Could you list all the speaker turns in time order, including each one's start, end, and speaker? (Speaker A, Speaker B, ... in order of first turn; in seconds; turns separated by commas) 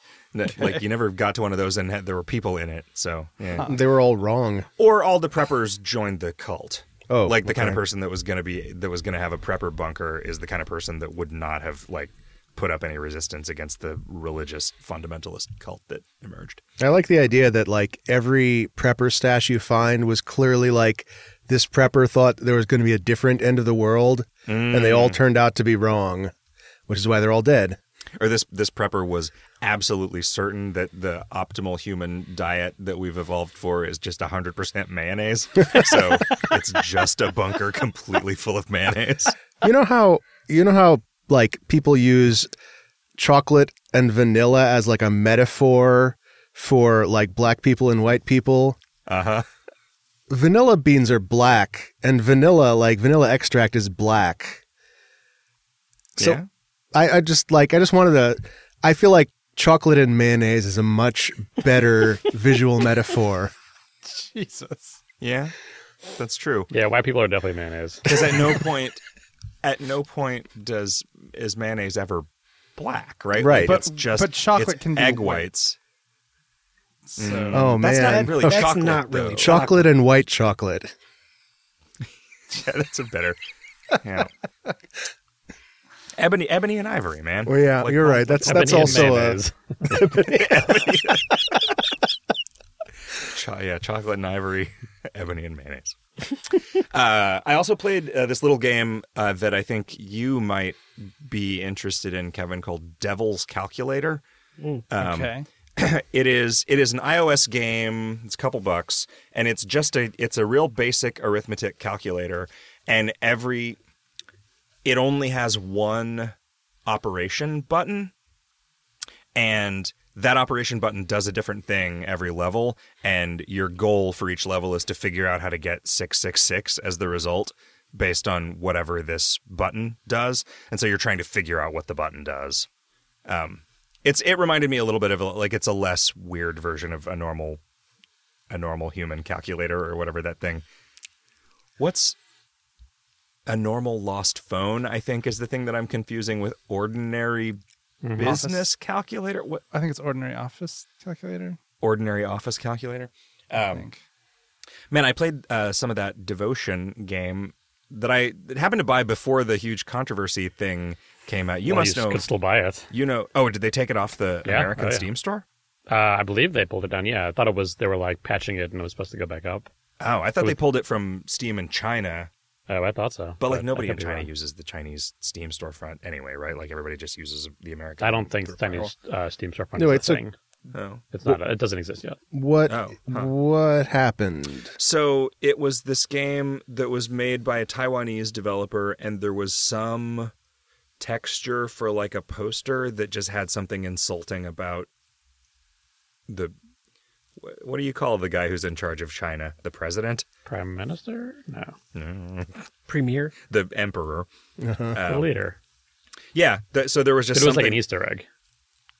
Speaker A: 0.3-3.7, Speaker B: 3.6-4.7, Speaker A: 4.8-16.6, Speaker B: 7.1-7.8, Speaker B: 16.8-26.3, Speaker A: 24.5-25.2, Speaker B: 26.9-27.8, Speaker A: 28.2-39.3, Speaker B: 39.6-42.5, Speaker B: 43.2-48.8, Speaker A: 49.1-49.4, Speaker B: 50.3-54.6, Speaker A: 56.2-56.5, Speaker B: 56.9-63.5, Speaker C: 64.0-65.0, Speaker A: 65.2-65.5, Speaker A: 66.2-66.7, Speaker D: 66.7-68.4, Speaker A: 68.0-69.0, Speaker A: 69.6-72.2, Speaker A: 72.8-75.8, Speaker B: 73.4-73.8, Speaker C: 73.6-75.5, Speaker C: 77.0-77.8, Speaker A: 77.2-79.7, Speaker B: 77.5-78.7, Speaker E: 77.8-79.9, Speaker B: 79.3-80.9, Speaker A: 82.5-83.4, Speaker A: 84.0-84.3, Speaker A: 86.2-89.2, Speaker B: 87.5-90.9, Speaker D: 88.4-89.5, Speaker A: 89.9-91.4, Speaker A: 93.2-104.2, Speaker A: 104.9-113.8, Speaker C: 105.0-105.5, Speaker A: 114.8-116.3, Speaker A: 116.8-118.1, Speaker A: 119.3-132.7, Speaker A: 133.2-137.6, Speaker A: 138.5-140.6, Speaker A: 141.8-142.2, Speaker A: 143.5-147.6, Speaker D: 148.0-148.4, Speaker A: 148.1-149.6, Speaker C: 148.2-148.7, Speaker C: 149.7-151.6, Speaker A: 151.8-153.8, Speaker C: 153.6-154.0, Speaker A: 154.9-162.2, Speaker D: 161.7-162.9, Speaker A: 162.9-165.4, Speaker D: 164.4-165.1, Speaker D: 165.9-169.7, Speaker A: 170.0-172.3, Speaker D: 172.7-174.3, Speaker A: 173.4-178.9, Speaker D: 178.0-180.3, Speaker B: 179.8-180.2, Speaker A: 180.7-181.0, Speaker D: 181.1-182.2, Speaker B: 182.3-184.7, Speaker A: 182.7-183.3, Speaker A: 184.8-190.3, Speaker A: 191.0-194.9, Speaker A: 196.3-196.5, Speaker A: 197.4-200.2, Speaker D: 200.5-201.8, Speaker A: 201.9-202.7, Speaker E: 202.9-203.3, Speaker A: 203.5-204.3, Speaker B: 204.6-205.0, Speaker A: 204.9-205.3, Speaker D: 205.0-205.6, Speaker A: 206.3-207.8, Speaker D: 207.3-208.2